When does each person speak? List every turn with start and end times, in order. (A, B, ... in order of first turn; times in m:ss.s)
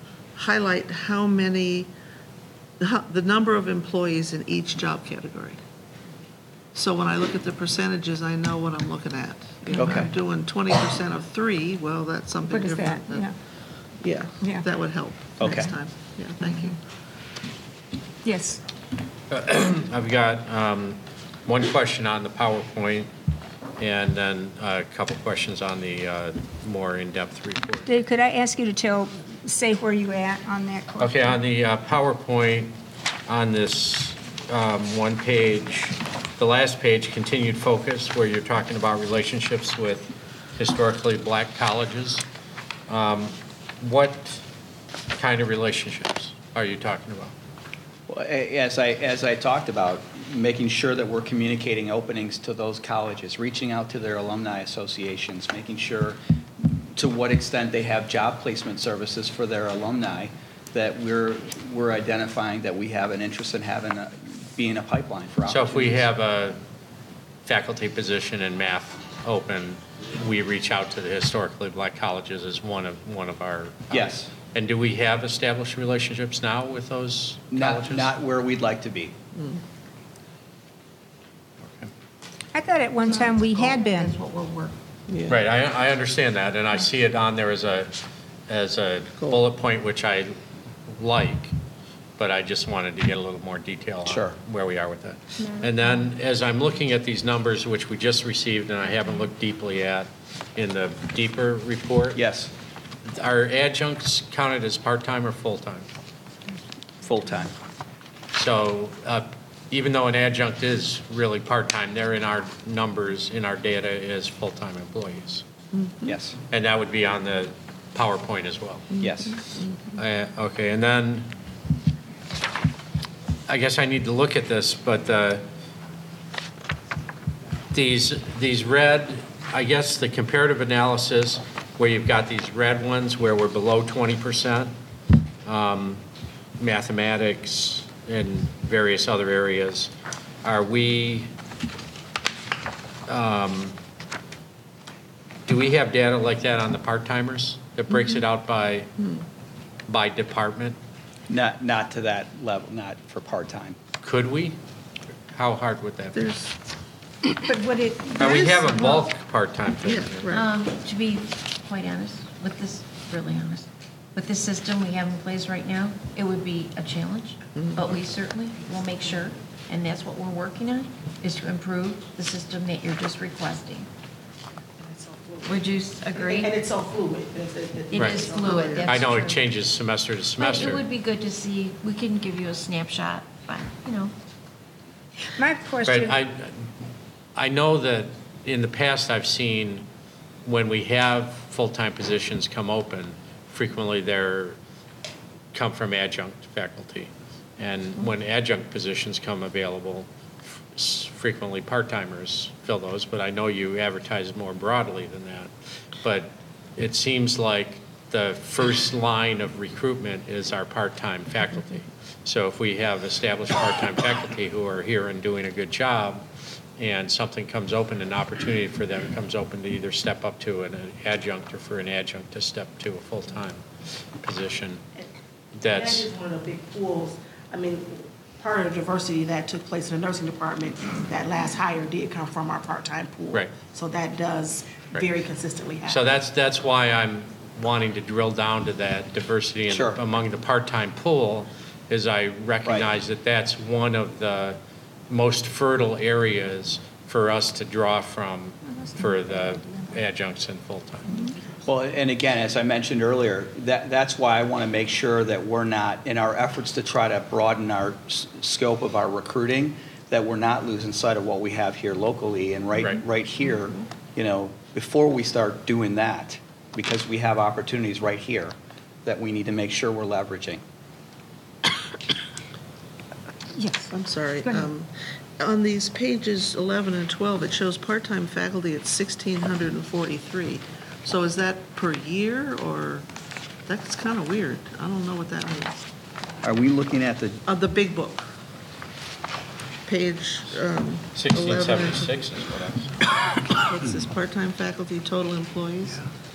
0:00.4-0:01.9 A
0:02.8-0:05.6 A
0:06.7-0:13.3 A
0:09.8-0:10.1 B
0:12.5-0:13.4 C
0:14.0-0:16.8 A
0:14.4-0:14.7 C
0:15.4-0:15.7 B
0:18.2-0:18.6 C
0:19.3-0:23.1 D
0:23.8-0:27.9 D
0:27.9-0:31.3 C
0:31.0-0:32.7 D
0:33.3-0:42.2 D
0:42.9-0:44.4 D
0:45.2-0:47.3 D
0:48.1-0:56.2 B
0:57.0-1:06.1 B
1:05.5-1:06.6 D
1:07.4-1:18.1 D
1:13.9-1:14.3 B
1:17.5-1:19.1 B
1:21.6-1:21.9 D
1:22.5-1:24.2 C
1:23.0-1:24.8 E
1:25.1-1:25.4 A
1:25.3-1:27.9 D
1:28.5-1:30.3 D
1:30.9-1:31.5 D
1:32.2-1:42.2 D
1:34.0-1:34.4 B
1:42.2-1:42.5 B
1:43.1-1:45.9 D
1:47.0-1:47.5 B
1:48.3-1:55.4 D
1:55.7-1:56.1 A
1:56.1-1:56.4 B
1:56.5-1:59.0 D
1:59.0-1:59.4 B
1:59.6-1:59.9 A
2:00.0-2:01.3 D
2:03.5-2:05.4 D
2:07.7-2:14.7 D
2:15.5-2:16.0 D
2:16.6-2:19.9 D
2:20.4-2:21.3 D
2:23.1-2:23.8 D
2:25.5-2:28.9 D
2:29.9-2:30.8 D
2:31.3-2:33.8 B
2:34.0-2:34.6 D
2:35.3-2:36.3 D
2:36.2-2:36.5 A
2:37.3-2:38.4 C
2:38.2-2:39.1 A
2:38.2-2:40.4 D
2:39.8-2:40.5 A
2:40.3-2:53.9 E
2:47.6-2:47.8 A
2:54.8-2:55.6 F
2:55.4-2:56.7 E
2:56.1-2:59.0 F
2:57.9-2:59.4 E
2:57.9-2:58.2 D
2:58.8-3:00.8 D
3:00.4-3:04.1 E
3:05.4-3:06.2 C
3:05.8-3:06.6 D
3:07.4-3:09.9 D
3:10.4-3:14.6 D
3:15.5-3:20.1 D
3:20.8-3:25.5 D
3:26.0-3:36.2 D
3:36.8-3:43.6 D
3:44.2-3:44.8 D
3:45.6-3:46.1 D
3:45.6-3:56.0 F
3:53.3-3:53.6 D
3:55.8-4:04.6 D
3:59.7-4:00.0 B
4:02.6-4:02.9 B
4:05.1-4:11.2 D
4:11.6-4:30.6 B
4:33.6-4:33.9 C
4:33.9-4:43.0 A
4:43.7-4:45.9 A
4:46.4-4:47.4 B
4:47.5-4:48.3 A
4:49.9-4:52.1 A
4:51.2-4:52.9 D
4:53.4-4:56.0 A